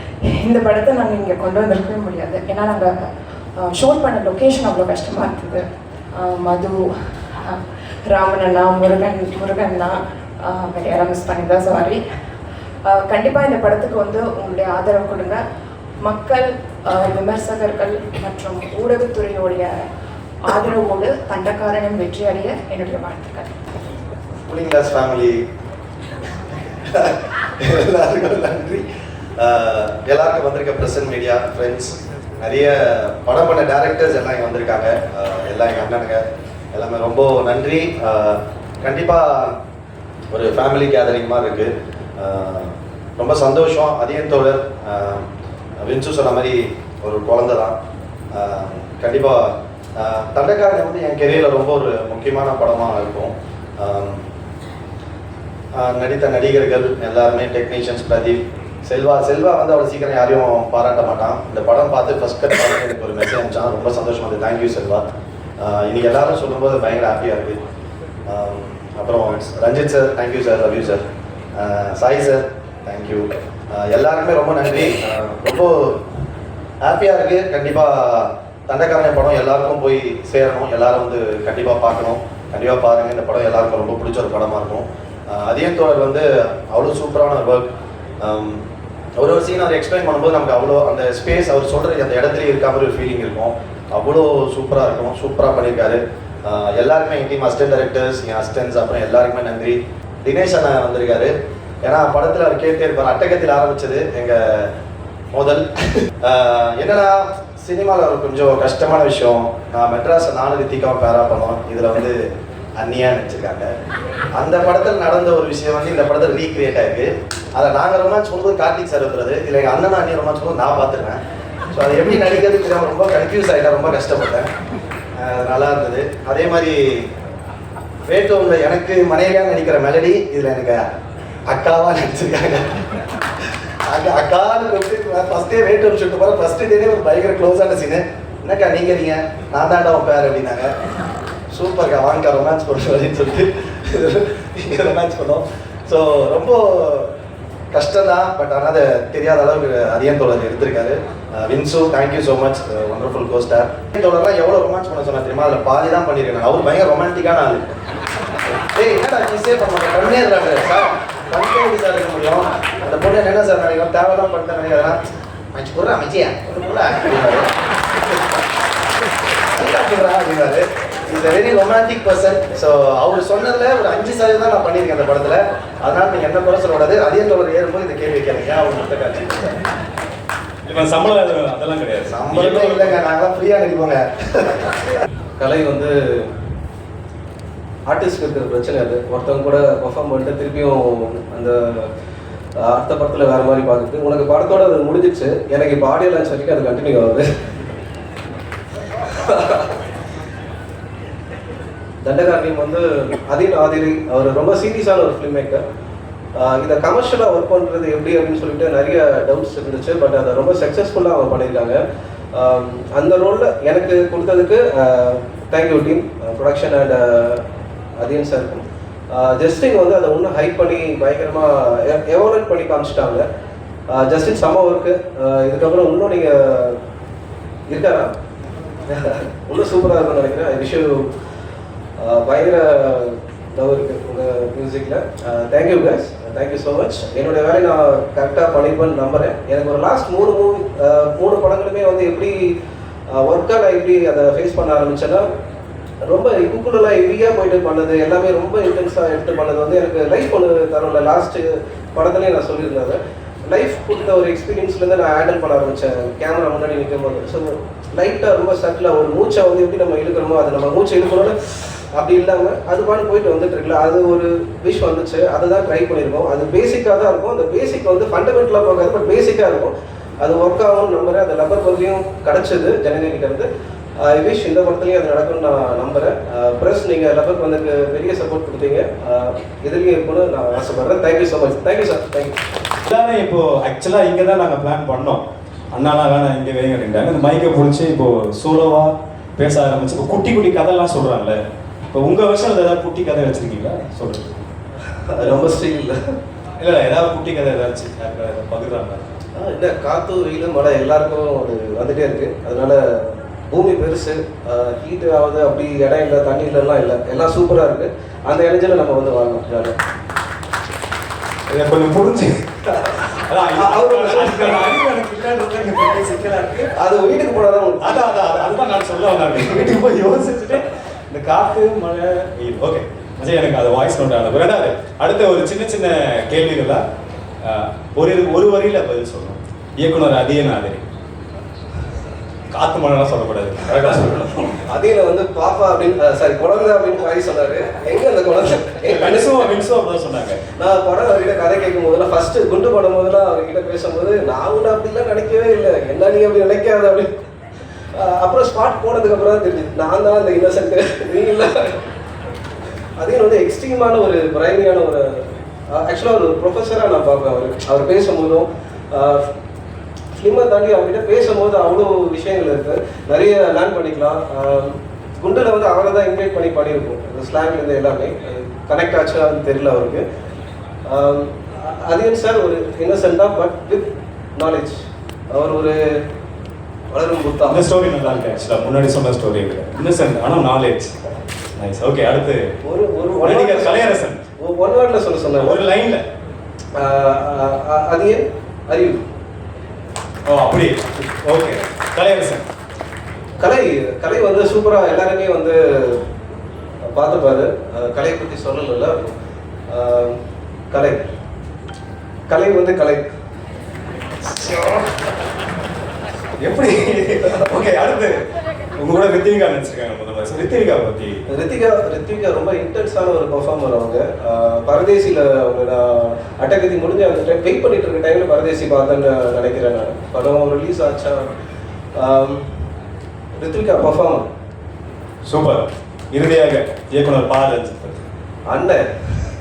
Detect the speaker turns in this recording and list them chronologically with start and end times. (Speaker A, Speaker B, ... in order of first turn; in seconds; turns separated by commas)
Speaker A: 0.2-2.9, Speaker A: 3.6-5.6, Speaker A: 6.2-12.0, Speaker A: 12.9-15.4, Speaker A: 16.0-19.7, Speaker A: 20.4-23.5, Speaker B: 24.4-25.4, Speaker B: 26.9-28.8, Speaker B: 29.4-39.5, Speaker B: 40.3-45.2, Speaker B: 45.8-47.8, Speaker B: 48.3-54.2, Speaker B: 55.8-65.0, Speaker B: 65.6-67.6, Speaker B: 68.3-71.0, Speaker B: 71.5-76.0, Speaker B: 76.8-88.6, Speaker B: 89.2-104.7, Speaker B: 105.3-105.6, Speaker B: 106.2-112.2, Speaker B: 112.8-113.7, Speaker B: 114.3-121.2, Speaker B: 121.7-124.5, Speaker B: 125.2-127.1, Speaker B: 128.1-130.8, Speaker B: 131.5-132.7, Speaker B: 133.9-140.7, Speaker B: 141.5-147.1, Speaker B: 147.7-157.7, Speaker B: 158.7-165.0, Speaker B: 165.5-167.5, Speaker B: 169.5-179.6, Speaker C: 180.6-183.0, Speaker B: 182.1-184.8, Speaker D: 185.4-185.9, Speaker D: 187.9-191.9, Speaker D: 192.6-197.2, Speaker D: 199.2-199.8, Speaker D: 202.0-205.6, Speaker D: 206.3-211.8, Speaker D: 212.3-217.4, Speaker D: 218.0-223.2, Speaker D: 223.9-226.8, Speaker D: 227.7-228.1, Speaker D: 228.9-231.1, Speaker D: 232.0-242.5, Speaker D: 243.1-245.2, Speaker D: 246.1-273.5, Speaker D: 274.0-282.4, Speaker C: 282.9-291.4, Speaker C: 291.9-294.5, Speaker D: 294.9-295.9, Speaker C: 295.2-295.4, Speaker C: 296.6-299.1, Speaker D: 299.3-309.7, Speaker C: 311.5-312.3, Speaker D: 312.7-312.9, Speaker C: 313.3-316.7, Speaker D: 313.5-314.7, Speaker D: 316.8-318.6, Speaker C: 317.8-326.8, Speaker C: 327.4-330.8, Speaker C: 332.5-334.6, Speaker D: 334.7-339.5, Speaker C: 338.9-340.4, Speaker D: 340.6-347.1, Speaker D: 347.9-351.8, Speaker D: 353.0-359.2, Speaker D: 360.1-370.0, Speaker D: 370.9-375.8, Speaker D: 376.9-377.6, Speaker C: 377.4-380.9, Speaker C: 381.6-382.5, Speaker D: 382.6-385.6, Speaker C: 383.2-384.2, Speaker C: 385.4-386.0, Speaker D: 386.8-389.0, Speaker C: 390.2-392.4, Speaker D: 393.4-396.0, Speaker D: 396.9-399.1, Speaker D: 399.7-400.1, Speaker D: 400.7-401.0, Speaker D: 402.3-403.1, Speaker C: 404.3-404.8, Speaker C: 406.4-408.2, Speaker C: 408.8-411.2, Speaker D: 411.3-421.3, Speaker D: 421.9-422.4, Speaker D: 423.3-424.2, Speaker C: 425.2-428.0, Speaker D: 428.5-428.8